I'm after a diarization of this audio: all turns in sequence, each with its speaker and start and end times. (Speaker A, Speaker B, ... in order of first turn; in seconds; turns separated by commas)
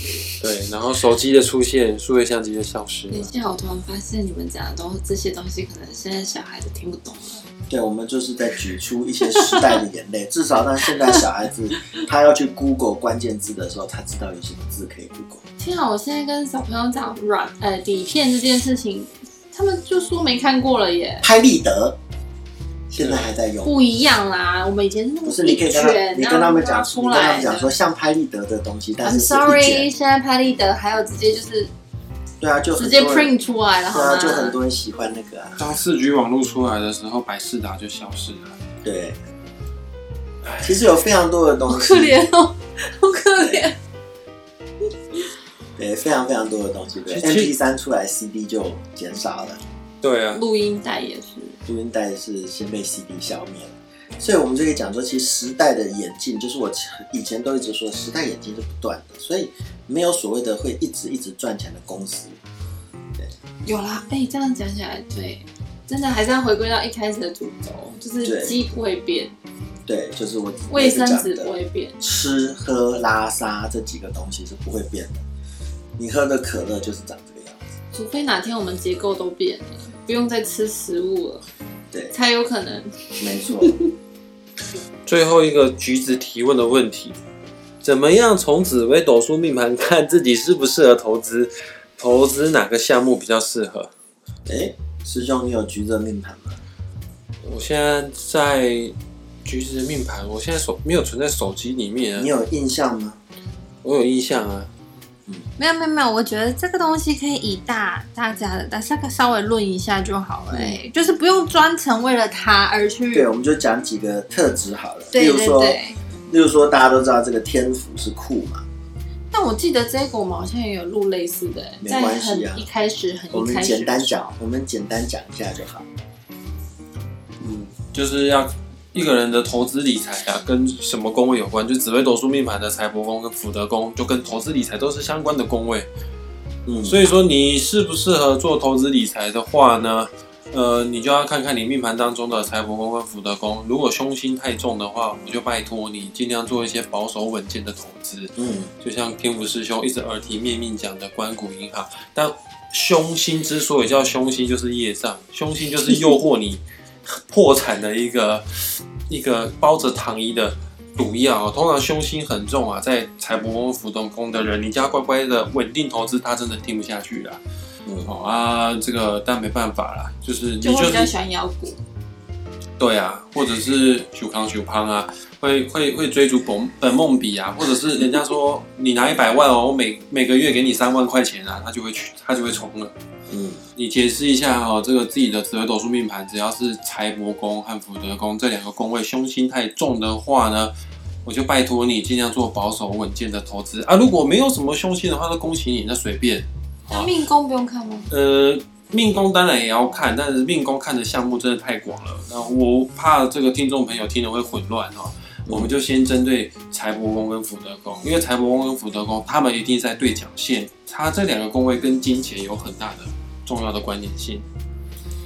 Speaker A: 0.4-3.3, Speaker B: 3.1-7.4, Speaker C: 7.7-15.4, Speaker B: 15.6-21.2, Speaker C: 21.2-22.0, Speaker C: 22.9-23.7, Speaker A: 23.0-23.3, Speaker B: 23.6-27.7, Speaker C: 25.2-29.9, Speaker B: 29.0-31.7, Speaker C: 32.4-33.3, Speaker B: 32.8-34.6, Speaker C: 33.9-35.7, Speaker A: 35.6-38.5, Speaker C: 38.8-39.2, Speaker A: 40.5-40.7, Speaker C: 40.6-42.2, Speaker B: 41.6-43.7, Speaker C: 43.4-43.6, Speaker C: 45.8-49.6, Speaker A: 47.0-47.5, Speaker A: 50.0-50.4, Speaker B: 50.3-51.5, Speaker C: 51.6-62.4, Speaker B: 63.6-69.3, Speaker C: 68.2-68.6, Speaker C: 69.8-75.2, Speaker B: 70.7-72.0, Speaker C: 76.0-77.6, Speaker B: 77.9-81.4, Speaker B: 82.1-83.9, Speaker C: 83.2-83.8, Speaker A: 85.0-87.2, Speaker A: 87.8-93.9, Speaker C: 94.5-96.6, Speaker A: 97.4-102.3, Speaker C: 102.2-103.2, Speaker A: 103.8-104.7, Speaker B: 105.6-113.3, Speaker C: 110.5-110.8, Speaker C: 113.1-118.6, Speaker B: 115.1-116.0, Speaker B: 119.3-124.3, Speaker C: 121.8-122.7, Speaker C: 123.3-125.8, Speaker A: 127.4-135.9, Speaker C: 136.7-137.0, Speaker A: 136.8-167.4, Speaker C: 148.3-148.7, Speaker C: 167.8-168.1, Speaker A: 168.0-171.1, Speaker B: 170.6-171.8, Speaker A: 172.8-182.9, Speaker C: 183.3-183.6, Speaker A: 183.8-190.7, Speaker A: 191.2-197.1, Speaker B: 196.9-198.1, Speaker A: 198.1-214.4